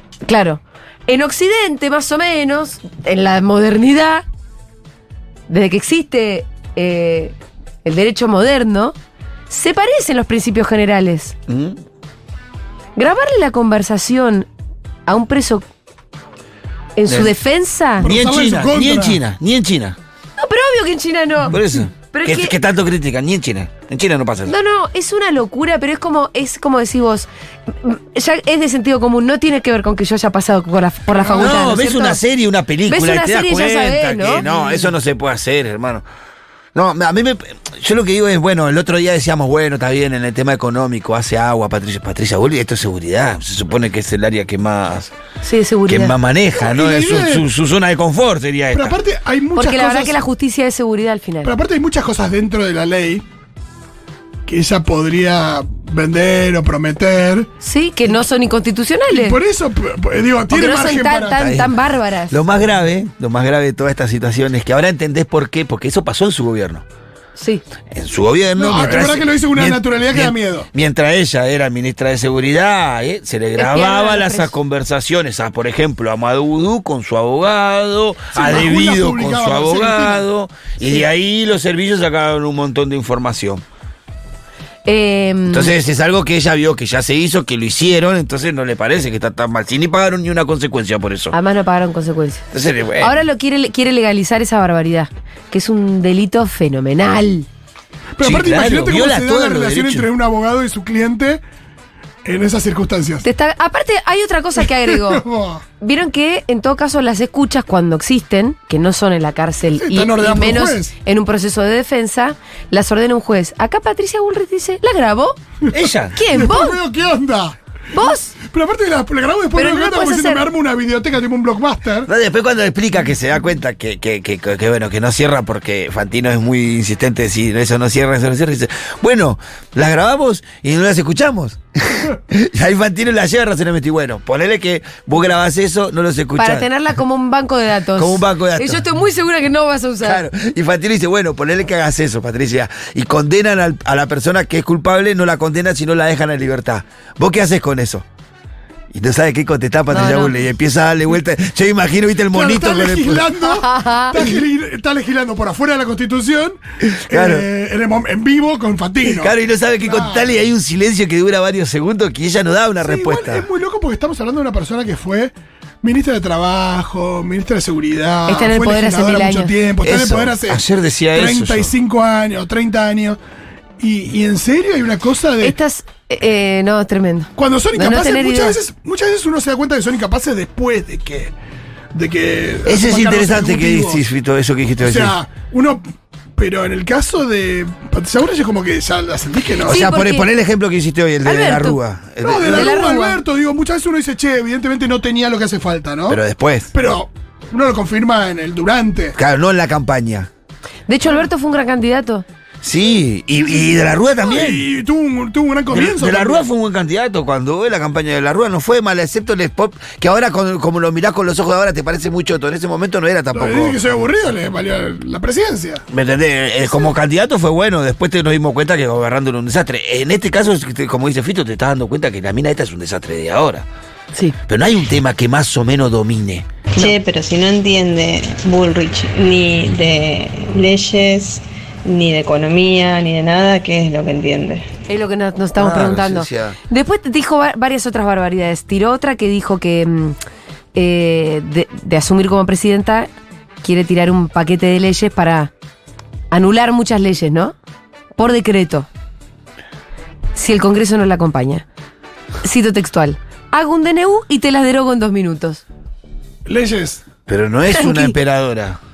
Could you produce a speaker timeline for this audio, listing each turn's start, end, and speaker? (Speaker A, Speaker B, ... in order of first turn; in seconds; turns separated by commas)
Speaker A: 0.2-4.2, Speaker A: 5.5-8.9, Speaker A: 9.5-11.3, Speaker B: 11.5-11.8, Speaker A: 13.0-14.4, Speaker A: 15.1-15.6, Speaker A: 17.0-18.1, Speaker B: 17.1-17.3, Speaker C: 18.0-19.2, Speaker B: 18.0-20.0, Speaker A: 20.4-21.6, Speaker B: 21.5-24.5, Speaker A: 22.1-22.5, Speaker A: 24.4-32.2, Speaker C: 31.1-31.6, Speaker B: 31.3-36.0, Speaker A: 32.9-34.9, Speaker B: 36.7-45.1, Speaker A: 45.4-46.1, Speaker B: 45.9-49.0, Speaker C: 46.6-47.4, Speaker C: 48.7-50.2, Speaker A: 49.5-51.5, Speaker C: 51.4-53.2, Speaker C: 54.5-57.5, Speaker A: 57.6-59.4, Speaker C: 59.1-61.4, Speaker A: 60.5-62.4, Speaker B: 61.4-61.7, Speaker B: 62.3-66.8, Speaker A: 67.3-67.6, Speaker B: 67.9-83.6, Speaker C: 68.6-70.7, Speaker A: 73.5-74.5, Speaker C: 78.3-80.2, Speaker A: 84.8-85.7, Speaker B: 85.5-91.3, Speaker A: 91.3-92.4, Speaker B: 92.5-93.2, Speaker A: 93.0-97.5, Speaker C: 98.2-101.4, Speaker B: 98.2-100.1, Speaker C: 102.2-103.2, Speaker A: 103.2-105.2, Speaker C: 104.9-105.6, Speaker A: 105.8-115.4, Speaker C: 109.8-110.9, Speaker B: 115.7-116.2, Speaker A: 116.1-116.8, Speaker C: 116.2-122.1, Speaker A: 117.9-118.3, Speaker A: 119.5-120.4, Speaker B: 122.1-136.7, Speaker A: 136.4-140.2, Speaker B: 137.9-138.8, Speaker B: 140.0-148.1, Speaker B: 148.9-153.3, Speaker A: 149.9-150.3, Speaker C: 152.3-160.3, Speaker A: 153.5-154.2, Speaker B: 156.9-157.5, Speaker B: 159.0-163.5, Speaker C: 162.8-170.6, Speaker A: 168.3-169.5, Speaker B: 169.8-171.7, Speaker C: 171.1-173.2, Speaker C: 173.8-175.6, Speaker A: 175.4-178.6, Speaker C: 177.4-181.3, Speaker C: 181.9-184.0, Speaker B: 182.7-185.1, Speaker C: 184.8-185.8, Speaker C: 186.4-189.8, Speaker B: 189.6-192.9, Speaker A: 189.7-190.3, Speaker A: 191.2-191.8, Speaker C: 192.2-196.2, Speaker A: 192.4-193.2, Speaker B: 196.1-196.7, Speaker C: 196.7-199.1, Speaker B: 199.2-200.3, Speaker A: 200.9-202.2, Speaker B: 202.6-204.7, Speaker C: 204.2-206.4, Speaker B: 205.7-213.8, Speaker C: 213.3-215.8, Speaker B: 215.9-223.7, Speaker B: 224.5-226.5, Speaker D: 226.7-234.7, Speaker A: 234.9-240.2, Speaker B: 235.6-236.6, Speaker A: 240.7-243.1, Speaker A: 243.6-245.5, Speaker A: 246.3-247.5, Speaker A: 248.2-248.9, Speaker A: 250.3-251.6, Speaker A: 252.4-255.6, Speaker C: 256.4-257.0, Speaker B: 257.3-258.8, Speaker A: 257.7-258.1